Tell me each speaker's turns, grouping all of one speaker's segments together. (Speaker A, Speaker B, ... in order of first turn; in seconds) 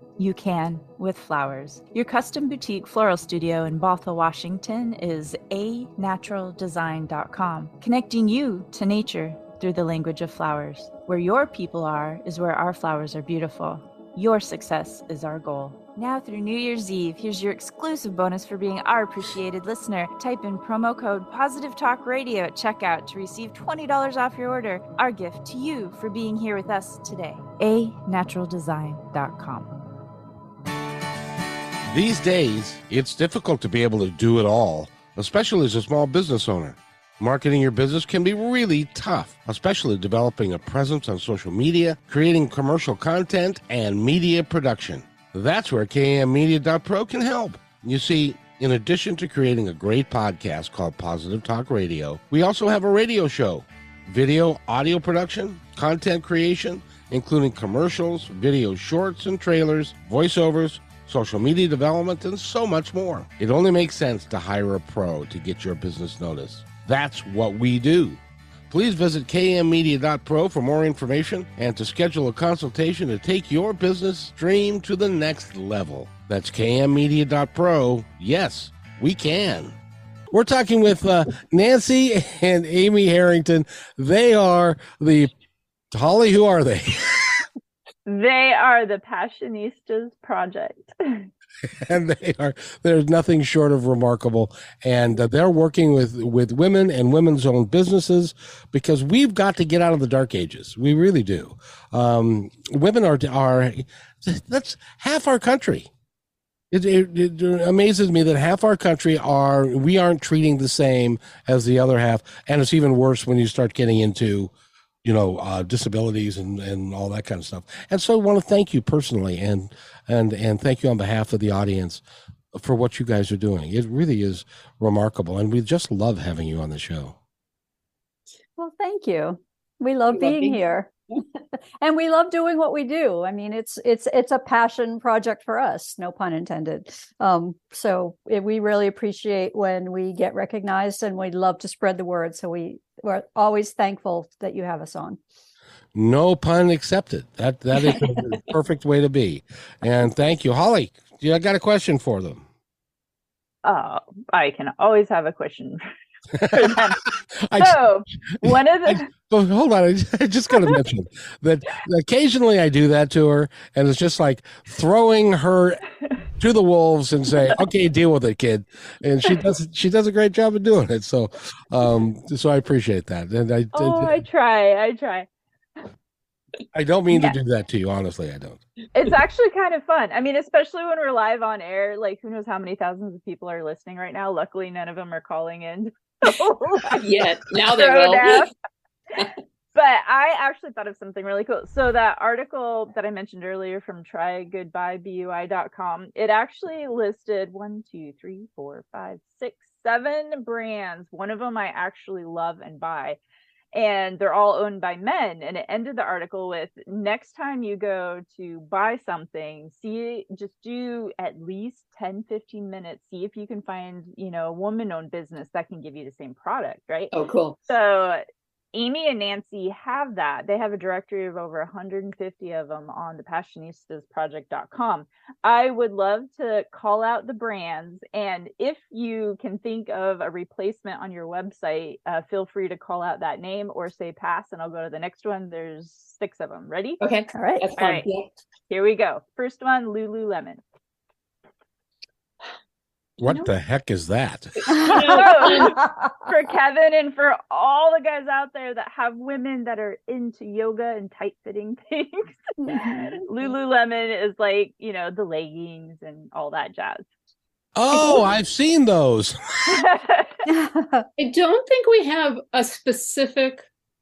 Speaker A: 0.2-29.8
Speaker B: 31.9-68.2, 68.7-79.7, 80.3-85.3, 85.9-87.4, 91.8-105.9, 106.7-114.5, 115.0-122.0, 122.5-127.1, 145.9-152.4, 156.4-157.8, 158.4-165.8, 166.4-174.2, 176.7-178.6, 243.2-244.8, 257.8-259.8
Speaker C: 88.0-91.3, 153.6-155.8, 156.4-157.0, 157.6-159.0, 173.7-175.3, 177.1-177.3, 178.9-188.5, 189.7-203.2, 203.7-217.1, 217.7-237.0, 237.8-238.1, 238.7-240.6, 244.9-257.1, 259.7-260.3
Speaker D: 128.6-130.9, 131.8-145.2, 237.3-237.7, 245.6-246.1, 252.6-253.1, 260.4-261.1
Speaker E: 130.1-130.6, 186.9-188.4, 217.1-217.6, 237.0-238.3, 243.2-243.5, 244.6-245.8, 261.2-263.6